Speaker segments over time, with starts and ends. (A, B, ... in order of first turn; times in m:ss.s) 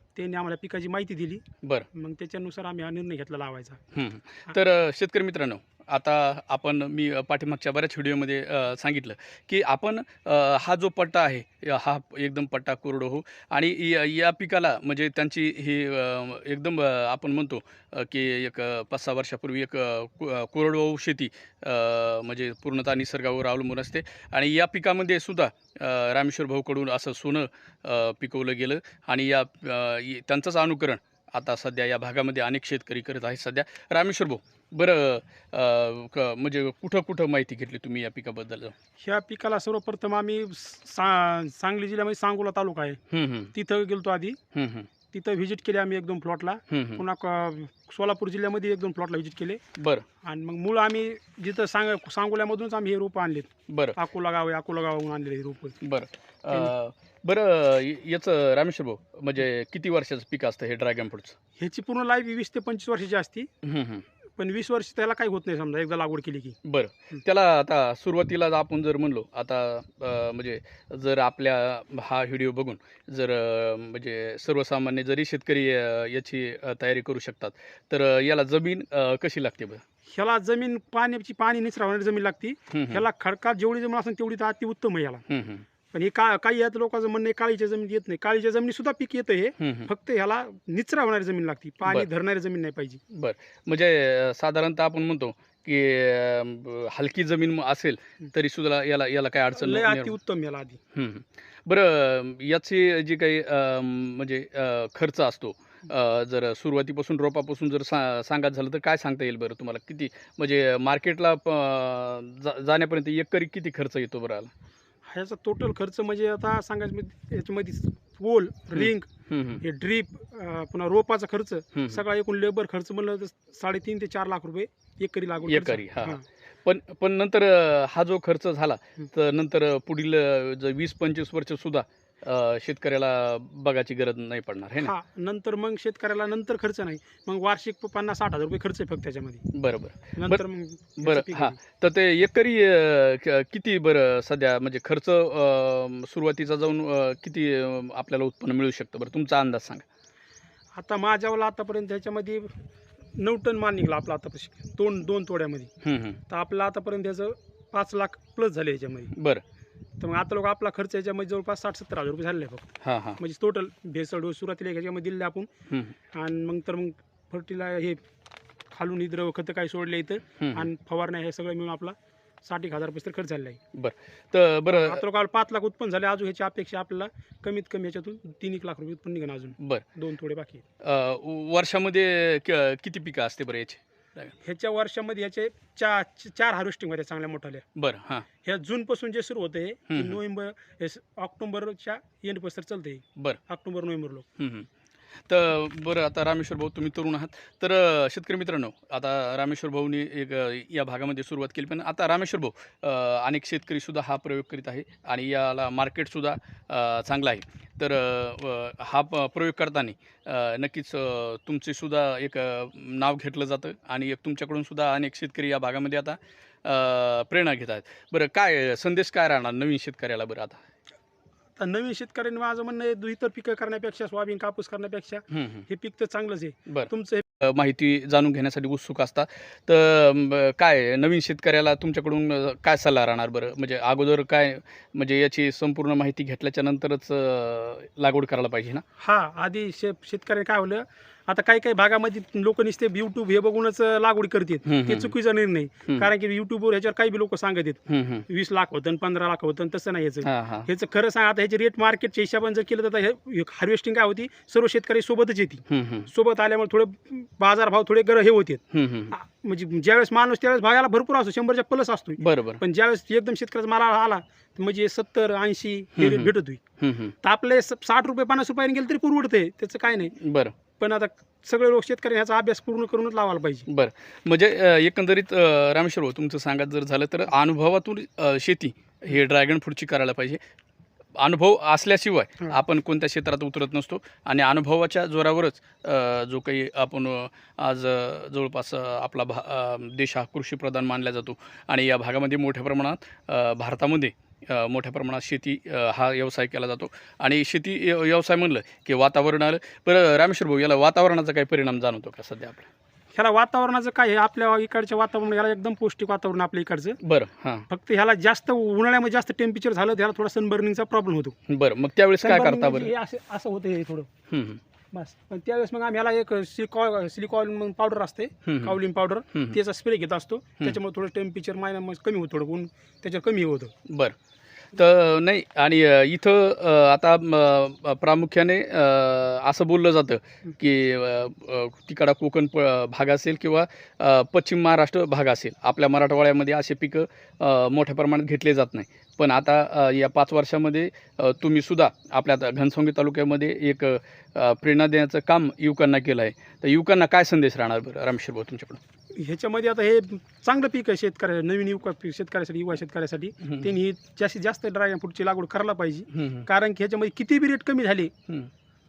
0:00.2-0:03.8 A
0:03.9-0:38.8 B
0:39.0-0:43.0 A
0:43.1-0:43.5 B
0:43.5-0:44.4 A
0:44.5-0:44.9 B
0:45.1-0:49.6 A
0:46.7-0:47.0 B
0:49.8-0:50.1 B
0:50.2-0:55.8 A
0:53.7-0:54.0 B
0:55.8-1:01.4 B
1:01.6-1:03.5 A
1:03.6-1:04.1 B
1:04.4-1:06.6 A
1:06.6-1:19.8 B
1:20.1-1:25.2 A
1:22.7-1:23.0 B
1:25.3-1:25.7 B
1:25.9-1:33.0 A
1:29.6-1:29.9 B
1:33.1-1:40.1 B
1:39.6-1:40.8 A
1:40.9-1:54.5 B
1:55.1-1:59.1 A
1:58.8-1:59.6 B
1:59.6-2:06.2 A
2:01.8-2:02.0 B
2:05.4-2:14.9 B
2:14.8-2:19.4 A
2:19.5-2:20.4 B
2:20.2-2:21.6 A
2:21.0-2:29.8 B
2:30.8-2:32.6 A
2:33.2-2:35.7 A
2:35.8-2:36.2 B
2:36.3-2:39.1 A
2:39.1-2:39.4 B
2:40.0-2:45.5 A
2:42.8-2:43.2 B
2:45.7-2:45.9 B
2:46.1-2:48.0 A
2:48.7-2:53.6 A
2:50.4-2:50.7 B
2:53.7-2:55.0 B
2:54.7-3:00.6 A
2:59.6-2:59.8 B
3:00.8-3:04.3 B
3:04.4-3:07.6 A
3:07.8-3:08.2 B
3:08.4-3:14.2 A
3:09.9-3:10.2 B
3:14.4-3:14.7 B
3:15.3-3:40.6 B
3:41.6-3:47.2 A
3:45.3-3:45.7 B
3:46.7-3:58.8 B
3:59.0-4:26.6 A
4:04.7-4:05.1 B
4:07.9-4:08.2 B
4:10.2-4:10.7 B
4:15.7-4:16.1 B
4:18.7-4:19.1 B
4:22.2-4:22.6 B
4:26.0-4:27.1 B
4:27.2-4:30.2 A
4:30.2-4:30.6 B
4:30.8-4:33.7 A
4:33.7-4:40.4 B
4:41.2-5:02.7 B
5:03.1-5:07.0 A
5:07.0-5:07.7 B
5:07.7-5:11.4 A
5:11.5-5:12.9 B
5:12.2-5:14.1 A
5:14.3-5:14.6 B
5:14.9-5:23.7 A
5:18.4-5:18.8 B
5:23.9-5:24.2 B
5:24.7-5:48.8 B
5:49.2-5:58.1 A
5:56.1-5:56.5 B